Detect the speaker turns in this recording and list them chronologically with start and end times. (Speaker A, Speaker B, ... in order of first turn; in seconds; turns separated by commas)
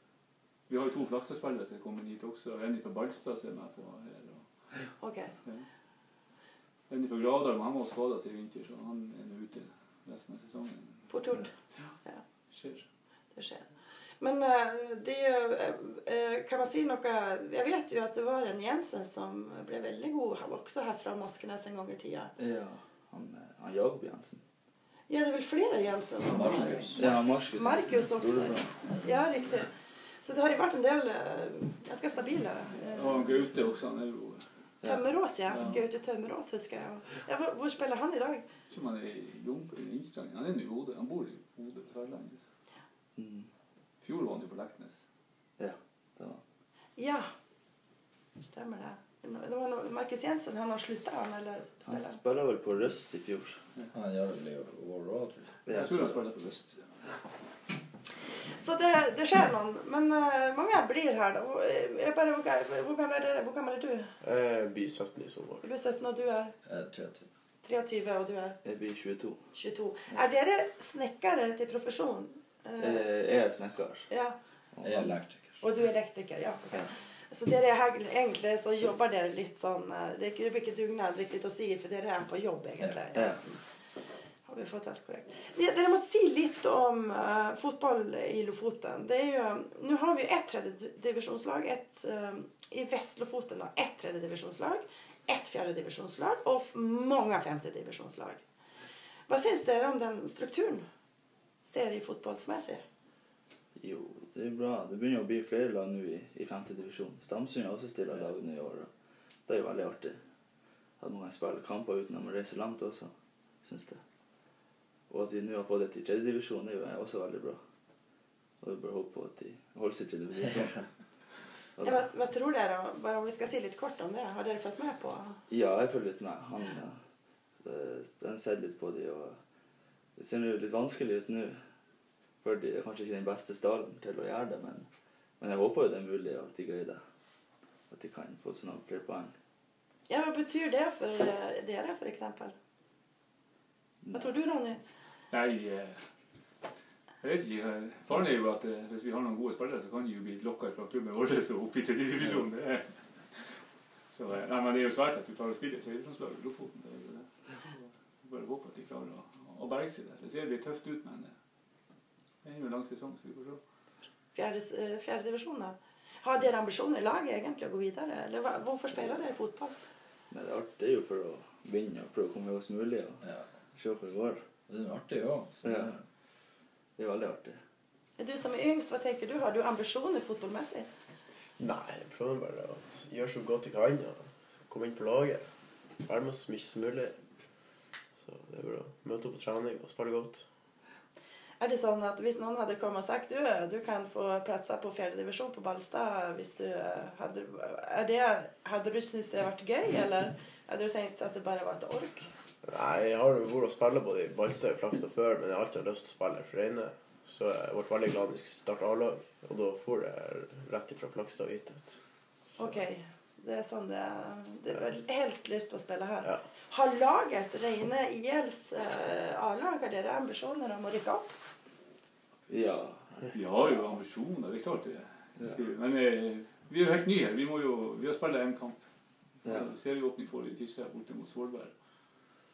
Speaker A: 0.7-4.4, Speaker B: 5.0-5.3, Speaker A: 6.9-11.1, Speaker B: 11.1-11.5, Speaker A: 12.5-12.8, Speaker B: 13.3-13.7, Speaker B: 14.2-22.3, Speaker C: 22.4-24.4, Speaker B: 25.1-33.3, Speaker D: 26.3-27.1, Speaker C: 26.9-28.9, Speaker A: 32.9-34.4, Speaker B: 34.8-38.5, Speaker A: 35.5-35.8, Speaker A: 38.7-42.4, Speaker C: 43.1-43.5, Speaker A: 44.0-45.0, Speaker C: 45.6-46.4, Speaker B: 47.0-47.3, Speaker B: 48.4-52.2, Speaker C: 51.8-53.6, Speaker D: 53.9-55.6, Speaker C: 55.6-56.2, Speaker A: 55.7-56.9, Speaker B: 58.5-64.1, Speaker E: 64.2-65.6, Speaker B: 65.6-66.5, Speaker D: 66.6-67.2, Speaker B: 67.6-68.6, Speaker C: 68.6-69.4, Speaker B: 69.5-73.1, Speaker C: 72.8-74.1, Speaker B: 74.1-74.4, Speaker C: 74.7-75.1, Speaker D: 74.8-75.6, Speaker B: 75.6-83.6, Speaker C: 83.1-83.4, Speaker B: 84.5-98.4, Speaker B: 99.3-100.8, Speaker B: 101.6-102.8, Speaker C: 103.8-108.9, Speaker C: 109.5-110.2, Speaker C: 111.0-113.1, Speaker C: 113.6-114.0, Speaker C: 115.1-117.6, Speaker C: 118.6-120.8, Speaker C: 121.8-122.0, Speaker B: 121.8-125.4, Speaker C: 125.5-127.0, Speaker C: 127.6-129.4, Speaker C: 130.2-131.6, Speaker C: 132.4-134.9, Speaker C: 135.4-137.0, Speaker C: 137.9-139.3, Speaker B: 140.1-142.5, Speaker C: 144.0-144.3, Speaker B: 144.1-144.8, Speaker A: 145.3-146.0, Speaker A: 147.2-153.4, Speaker A: 154.1-161.3, Speaker A: 162.4-163.6, Speaker B: 164.3-169.7, Speaker C: 170.3-173.2, Speaker C: 173.7-174.4, Speaker D: 174.7-176.0, Speaker C: 175.6-175.9, Speaker C: 177.0-177.6, Speaker B: 178.2-180.9, Speaker E: 181.6-185.4, Speaker E: 186.0-187.1, Speaker E: 188.2-190.4, Speaker B: 191.6-202.3, Speaker E: 202.6-211.9, Speaker B: 212.6-221.3, Speaker C: 222.5-223.3, Speaker A: 223.3-228.8, Speaker A: 229.4-231.7, Speaker C: 229.4-229.7